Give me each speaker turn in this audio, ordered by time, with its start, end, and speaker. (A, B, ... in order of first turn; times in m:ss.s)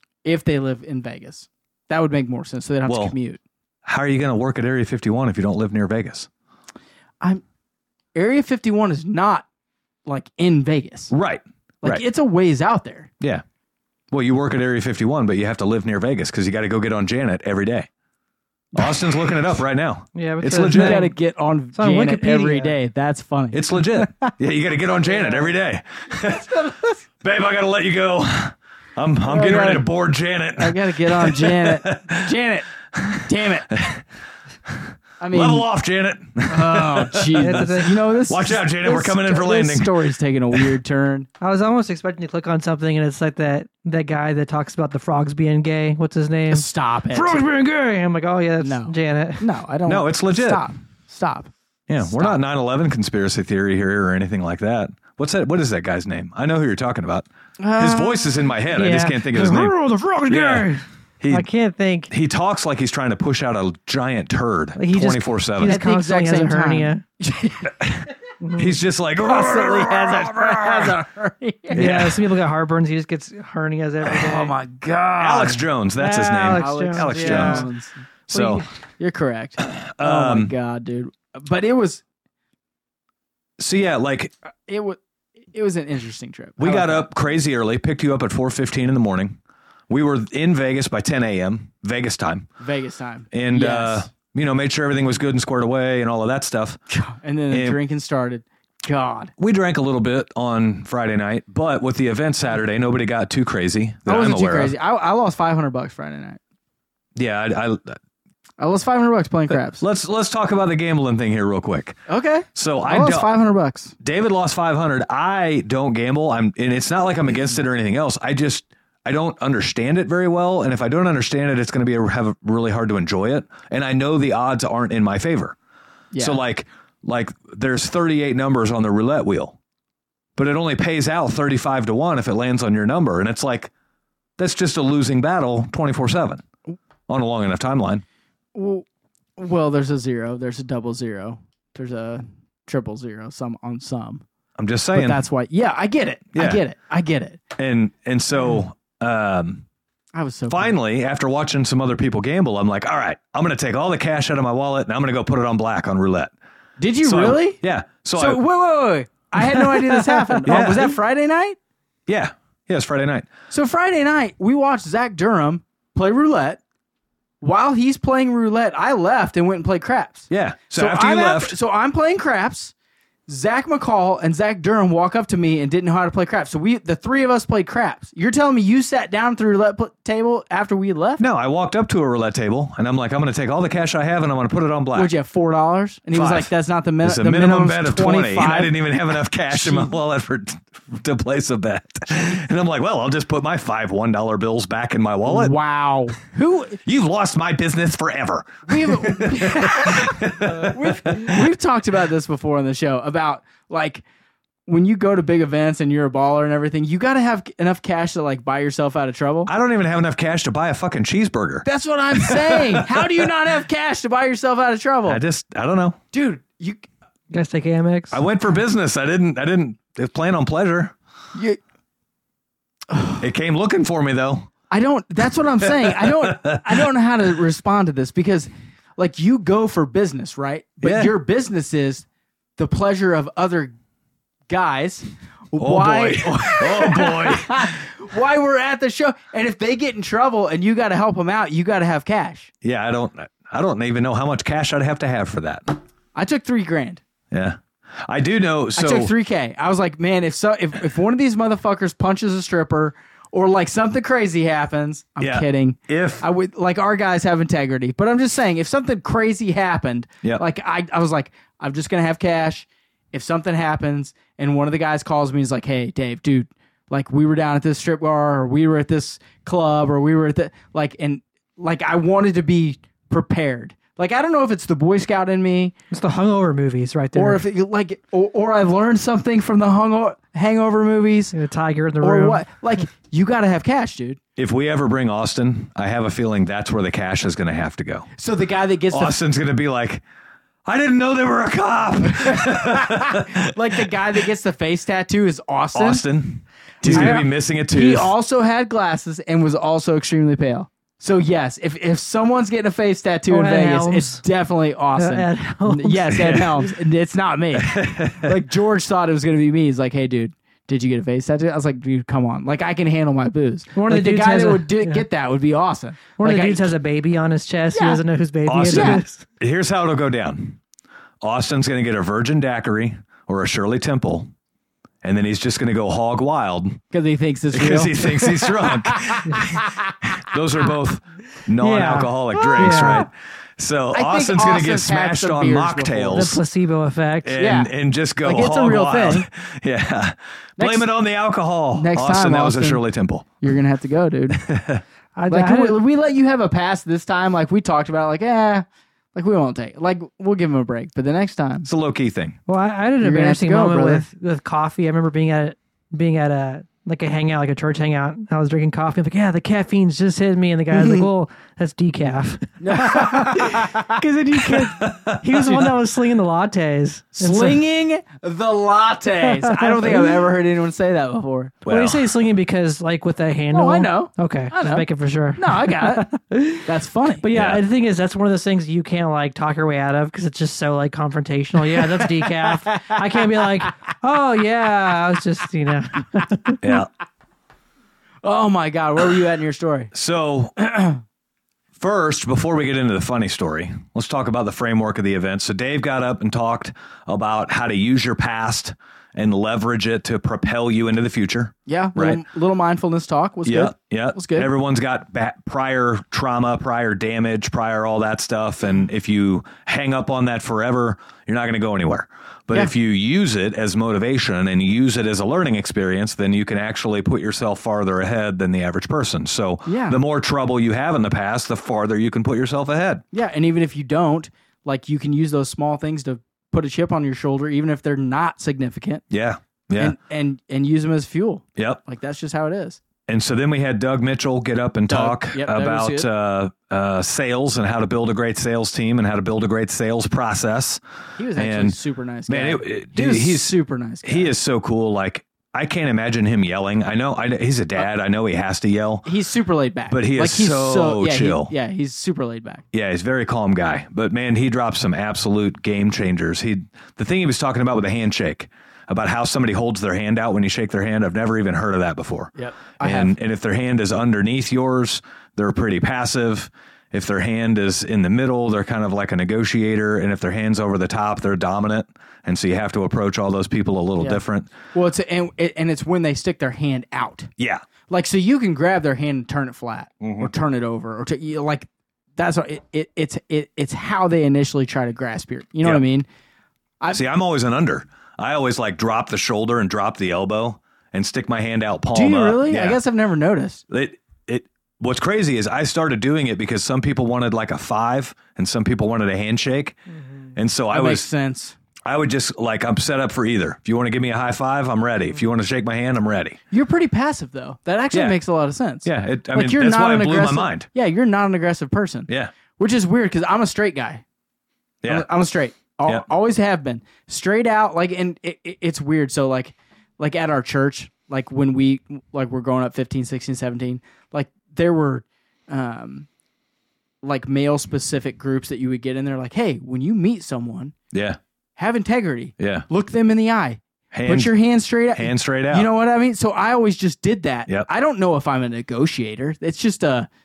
0:00.2-0:03.4 A
0:02.8-0:03.1 B
0:03.8-0:06.3 B
0:08.1-0:09.4 A
0:10.0-0:11.1 A
0:11.1-0:12.0 B
0:11.8-0:13.1 A
0:14.1-0:17.9 B
0:18.8-0:21.0 B
0:18.8-0:19.1 A
0:20.2-0:21.1 C
0:20.7-0:24.3 A
0:21.8-0:22.8 C
0:23.5-0:26.6 B
0:25.0-0:25.5 A
0:26.3-0:27.0 A
0:27.2-0:32.3 B
0:29.2-0:29.9 A
0:30.6-0:33.8 A
0:32.9-0:34.0 B
0:34.7-0:39.9 B
0:35.2-0:35.7 A
0:36.5-0:41.3 A
0:37.4-0:38.0 C
0:41.4-0:49.4 C
0:46.5-0:47.4 A
0:48.6-0:52.4 A
0:49.8-0:50.6 B
0:51.9-0:57.2 B
0:57.6-0:58.4 A
0:57.8-0:59.8 B
0:58.7-1:02.1 C
1:00.3-1:00.7 B
1:01.2-1:01.5 B
1:02.1-1:05.8 B
1:04.8-1:07.0 C
1:05.6-1:07.9 A
1:07.8-1:11.0 B
1:08.4-1:08.7 C
1:09.2-1:11.9 A
1:11.7-1:14.5 C
1:11.7-1:12.2 B
1:14.0-1:15.7 A
1:15.2-1:17.7 B
1:16.0-1:17.7 C
1:16.5-1:18.0 A
1:18.3-1:18.6 B
1:18.3-1:18.6 C
1:19.0-1:22.0 A
1:19.6-1:20.5 B
1:23.6-1:24.3 B
1:24.7-1:25.0 A
1:25.5-1:27.1 A
1:26.6-1:29.4 B
1:29.9-1:32.5 B
1:32.6-1:34.1 A
1:33.3-1:36.8 B
1:36.9-1:39.3 A
1:37.5-1:37.8 B
1:39.4-1:44.8 B
1:44.0-1:46.4 A
1:47.2-1:48.0 B
1:48.6-1:49.8 A
1:49.5-1:52.0 B
1:52.1-1:53.9 A
1:52.5-1:53.3 B
1:54.0-2:05.6 B
2:06.1-2:06.4 A
2:06.2-2:09.6 B
2:10.4-2:13.7 B
2:14.4-2:16.4 B
2:17.1-2:18.0 B
2:18.5-2:18.8 A
2:19.4-2:24.2 A
2:24.6-2:25.2 B
2:24.9-2:27.4 A
2:26.3-2:26.6 B
2:27.6-2:29.6 B
2:30.1-2:30.7 A
2:30.5-2:36.3 B
2:36.8-2:37.6 A
2:37.0-2:38.4 B
2:38.1-2:41.6 A
2:39.4-2:39.7 B
2:40.4-2:41.0 B
2:42.1-2:43.3 B
2:43.5-2:46.6 A
2:47.4-2:52.7 A
2:50.3-2:51.6 B
2:53.3-3:01.2 A
3:01.2-3:05.1 B
3:04.9-3:08.8 A
3:06.1-3:06.5 B
3:07.0-3:15.6 B
3:09.5-3:09.9 A
3:15.2-3:16.8 A
3:16.8-3:21.5 B
3:18.7-3:24.0 A
3:24.7-3:29.5 A
3:29.5-3:33.1 B
3:31.6-3:35.2 A
3:35.0-3:36.0 B
3:36.1-3:36.8 A
3:37.3-3:38.2 C
3:38.1-3:40.9 B
3:42.9-3:43.2 A
3:43.2-3:44.5 B
3:44.7-3:52.0 A
3:45.6-3:46.9 B
3:50.8-3:51.1 B
3:52.6-3:53.7 A
3:54.5-4:02.5 A
3:55.6-3:57.8 B
4:02.6-4:05.6 B
4:06.1-4:07.0 A
4:07.3-4:09.1 B
4:08.8-4:35.7 A
4:15.2-4:16.2 B
4:35.9-4:37.4 C
4:37.1-4:41.3 A
4:41.3-4:42.4 C
4:42.0-4:44.2 A
4:44.4-4:48.1 B
4:48.2-4:49.2 A
4:48.9-4:50.0 B
4:50.6-4:53.9 B
4:52.1-4:56.0 A
4:55.7-4:58.1 B
4:56.8-5:16.7 A
4:56.8-4:57.2 C
5:03.3-5:04.2 C
5:05.0-5:06.7 C
5:06.1-5:06.4 B
5:07.6-5:08.4 B
5:13.8-5:15.0 C
5:16.2-5:19.2 C
5:17.7-5:18.0 A
5:18.5-5:20.6 B
5:18.6-5:19.0 A
5:21.2-5:24.3 B
5:25.0-5:26.8 B
5:26.9-5:30.2 A
5:27.5-5:36.4 B
5:31.6-5:33.0 C
5:32.4-5:33.1 A
5:33.9-5:36.4 A
5:36.1-5:37.4 C
5:37.2-5:43.3 B
5:37.4-5:37.7 A
5:38.2-5:39.2 A
5:40.6-5:40.9 A
5:41.8-5:42.8 A
5:43.4-5:44.4 A
5:44.3-5:44.8 B
5:45.2-5:45.8 C
5:45.3-5:51.7 A
5:51.6-5:52.4 B
5:52.5-6:07.6 C
5:53.0-5:54.0 A
6:00.7-6:01.0 A
6:02.6-6:04.0 A
6:04.5-6:05.7 B
6:07.2-6:11.6 A
6:09.3-6:10.2 C
6:11.6-6:12.1 B
6:11.6-6:16.7 C
6:13.5-6:14.8 A
6:15.4-6:16.1 A
6:16.6-6:17.2 A
6:17.2-6:26.6 C
6:17.3-6:17.6 B
6:22.0-6:23.3 A
6:26.6-6:26.9 B
6:28.2-6:29.9 A
6:29.9-6:30.5 B
6:30.6-6:31.0 A
6:31.8-6:42.2 B
6:41.6-6:44.5 A
6:43.5-7:03.0 B
6:59.6-7:00.0 A
7:03.1-7:09.0 A
7:09.1-7:10.0 B
7:09.8-7:12.8 A
7:13.1-7:20.8 B
7:14.9-7:16.1 A
7:21.2-7:24.3 A
7:21.4-7:21.8 B
7:22.3-7:29.1 B
7:29.0-7:32.6 A
7:29.9-7:31.5 B
7:32.7-7:54.5 B
7:42.4-7:43.2 A
7:54.7-7:57.3 A
7:57.9-8:06.0 A
8:00.0-8:00.3 B
8:06.9-8:12.8 B
8:11.9-8:13.6 A
8:13.7-8:19.8 B
8:20.3-8:21.1 B
8:20.7-8:21.6 A
8:21.9-8:26.4 B
8:26.5-8:34.0 A
8:27.9-8:28.2 B
8:28.8-8:30.7 B
8:34.8-8:35.1 B
8:34.8-8:46.1 A
8:47.0-8:50.8 A
8:50.9-8:51.2 B
8:51.6-9:00.1 A
8:52.4-8:52.7 B
8:53.9-8:54.3 B
8:55.0-8:55.7 B